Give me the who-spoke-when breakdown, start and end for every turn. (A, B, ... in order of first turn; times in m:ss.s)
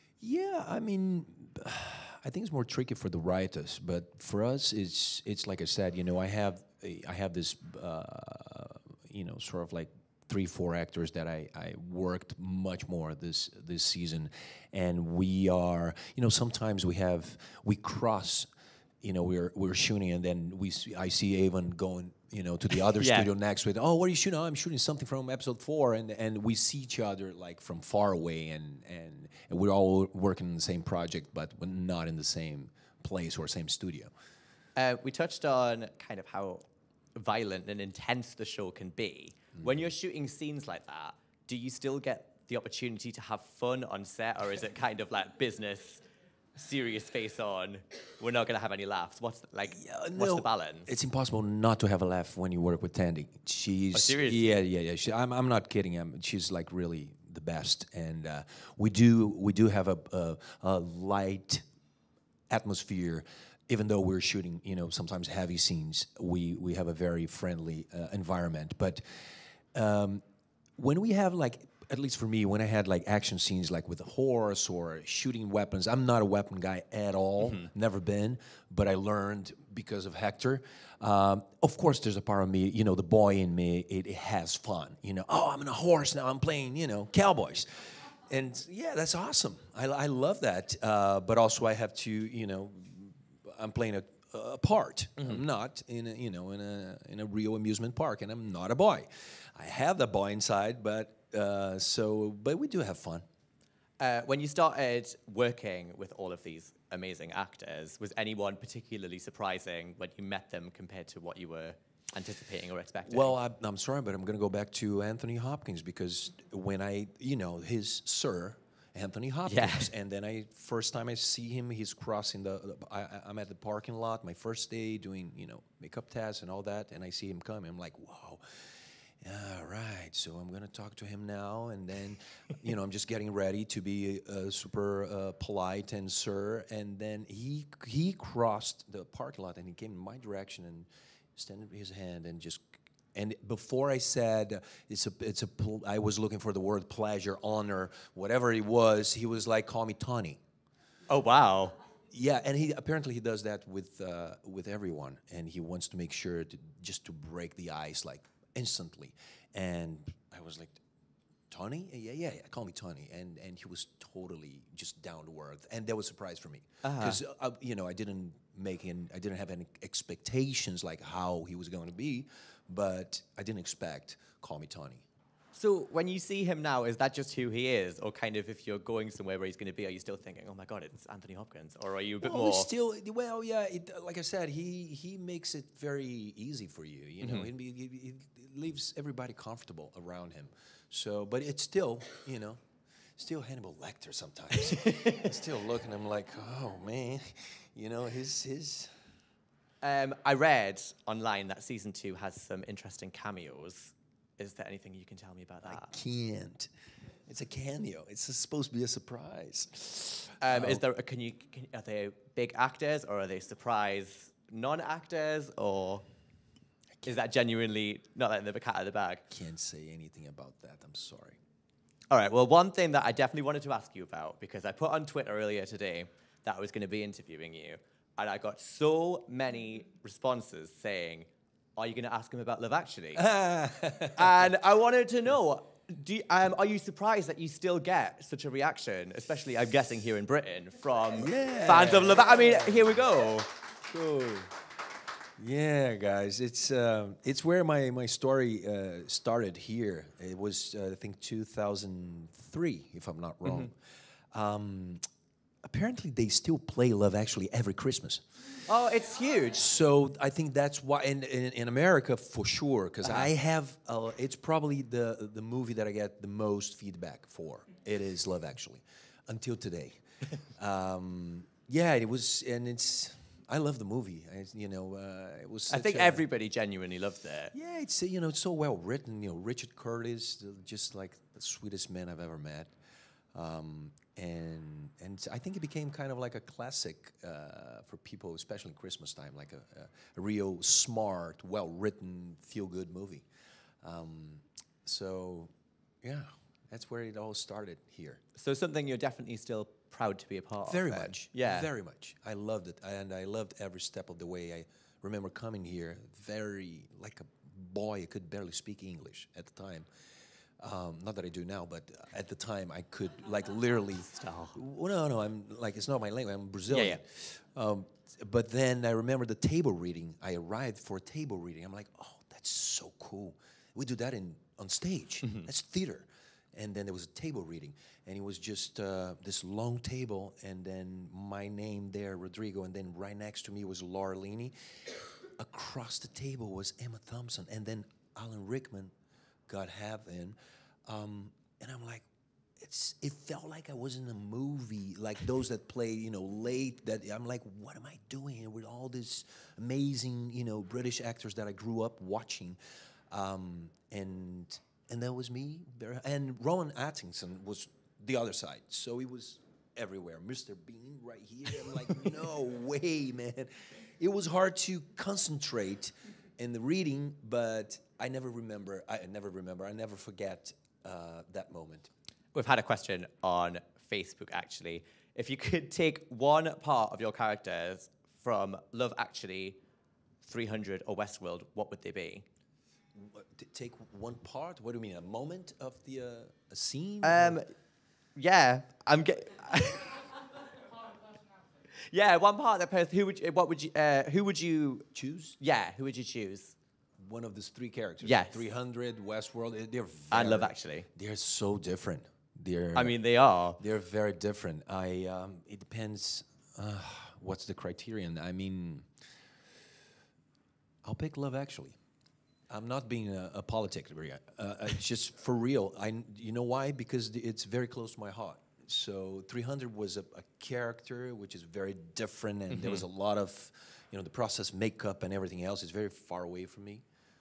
0:00.2-0:18.5 A
0:19.0-0:34.1 A
0:23.0-0:23.3 B
0:34.8-0:36.6 B
0:37.1-0:46.0 B
0:46.6-0:50.9 B
0:49.7-1:01.6 A
0:53.9-0:54.6 B
1:02.5-1:09.2 A
1:09.7-1:10.2 A
1:10.8-1:43.2 A
1:44.0-1:53.3 B
1:53.0-2:30.4 A
1:59.4-1:59.9 B
2:31.1-2:31.8 B
2:32.1-2:40.8 A
2:41.5-2:55.0 A
2:46.8-2:47.2 B
2:55.5-3:02.7 B
3:02.2-3:12.6 A
3:07.2-3:07.5 B
3:13.2-3:18.9 A
3:14.6-3:15.4 B
3:19.8-3:25.9 B
3:25.6-3:26.7 A
3:27.3-3:30.8 A
3:30.4-3:36.0 B
3:37.0-3:39.2 B
3:39.3-3:41.4 A
3:42.1-3:53.3 B
3:53.2-3:54.4 A
3:54.1-4:03.5 B
4:01.2-4:03.0 A
4:03.8-4:04.5 A
4:05.4-4:13.7 A
4:14.3-4:15.0 A
4:15.6-4:18.2 A
4:18.6-4:19.7 B
4:19.5-4:30.0 A
4:23.0-4:23.3 B
4:30.6-4:36.2 A
4:35.7-4:37.5 B
4:37.5-4:42.7 A
4:43.3-4:53.2 A
4:53.8-4:55.5 A
4:56.0-4:58.2 A
4:58.4-5:01.7 B
5:00.6-5:09.9 A
5:10.6-5:38.9 A
5:14.1-5:14.6 B
5:16.7-5:17.0 B
5:25.2-5:25.5 B
5:39.5-5:42.0 A
5:42.6-5:52.6 A
5:53.1-6:11.9 A
6:12.3-6:19.6 B
6:20.2-6:22.2 B
6:22.9-6:27.4 A
6:27.0-6:27.5 B
6:28.2-6:30.2 B
6:31.7-6:34.8 B
6:34.9-6:35.4 A
6:35.4-6:36.6 B
6:37.0-6:42.9 A
6:38.0-6:38.4 B
6:40.1-6:40.9 B
6:42.7-6:43.6 B
6:43.6-6:48.9 A
6:50.8-6:51.8 A
6:52.5-7:06.8 A
7:02.5-7:02.8 B